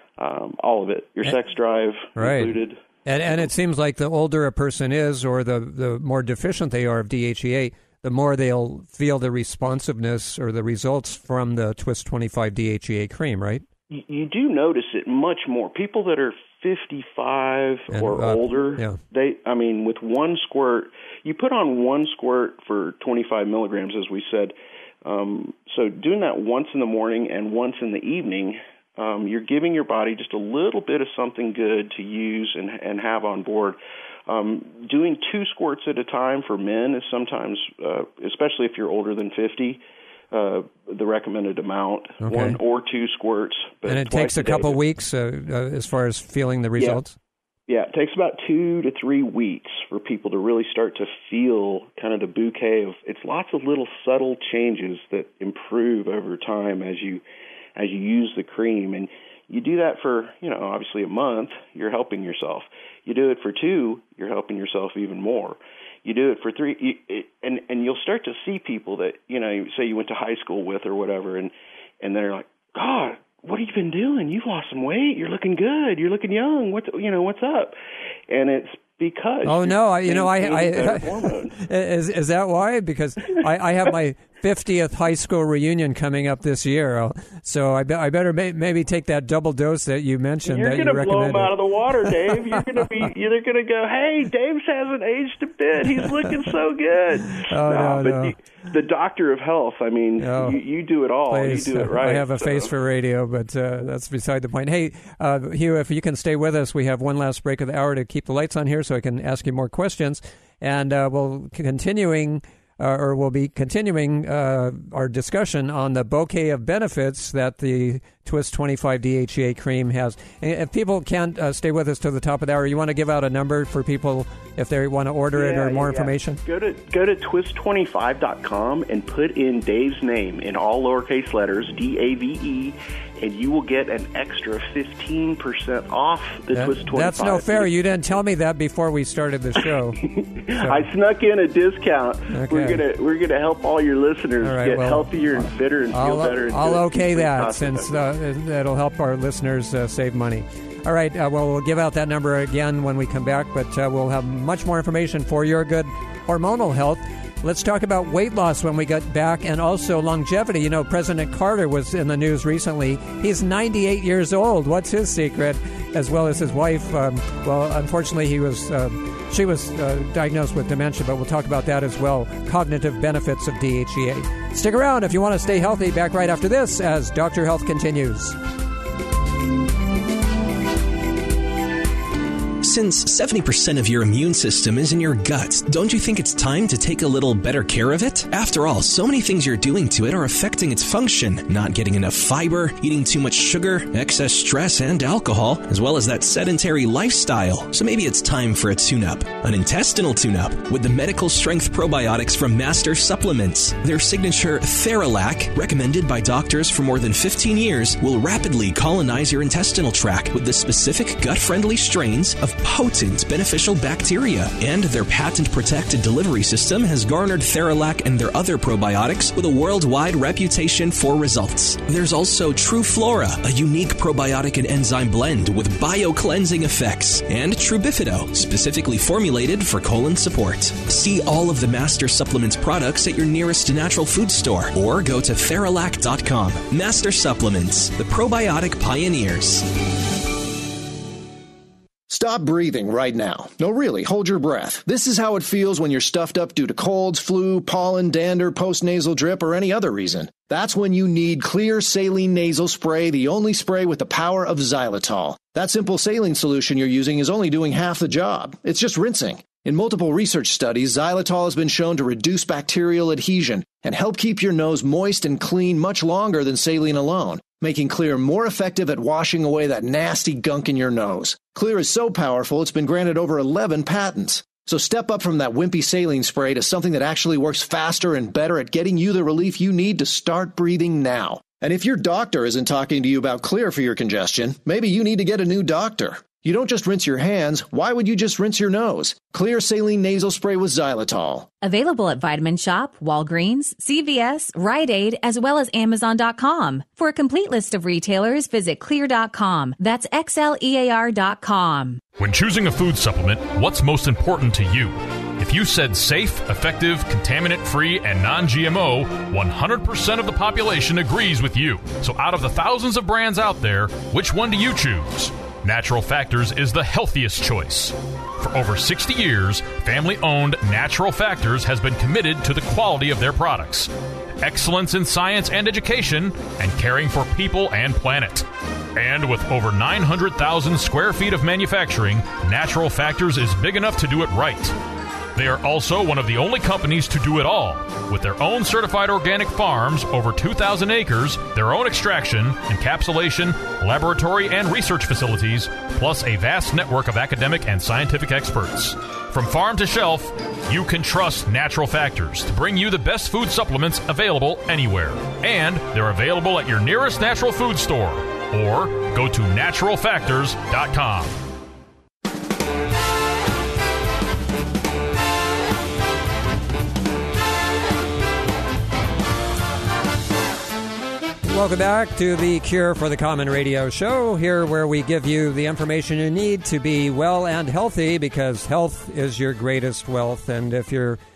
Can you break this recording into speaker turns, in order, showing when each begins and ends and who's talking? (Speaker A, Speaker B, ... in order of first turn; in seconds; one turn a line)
Speaker A: 0.2-2.8
Speaker B: 2.1-13.6
Speaker A: 13.9-44.8
Speaker B: 17.9-19.0
Speaker B: 42.2-42.6
Speaker B: 43.9-47.1
Speaker A: 46.8-47.0
Speaker A: 47.7-57.2
Speaker A: 57.8-77.8
Speaker A: 78.3-81.6
Speaker B: 79.4-92.6
Speaker A: 90.5-102.7
Speaker B: 97.3-98.3
Speaker B: 100.2-100.6
Speaker B: 101.3-126.4
Speaker A: 125.3-137.7
Speaker B: 136.5-140.8
Speaker A: 139.6-148.1
Speaker B: 142.3-142.8
Speaker B: 144.4-178.4
Speaker C: 182.6-239.6
Speaker D: 242.1-291.5
Speaker E: 291.6-302.0
Speaker F: 302.2-323.9
Speaker F: 324.4-334.8
Speaker F: 335.3-361.4
Speaker B: 371.4-381.2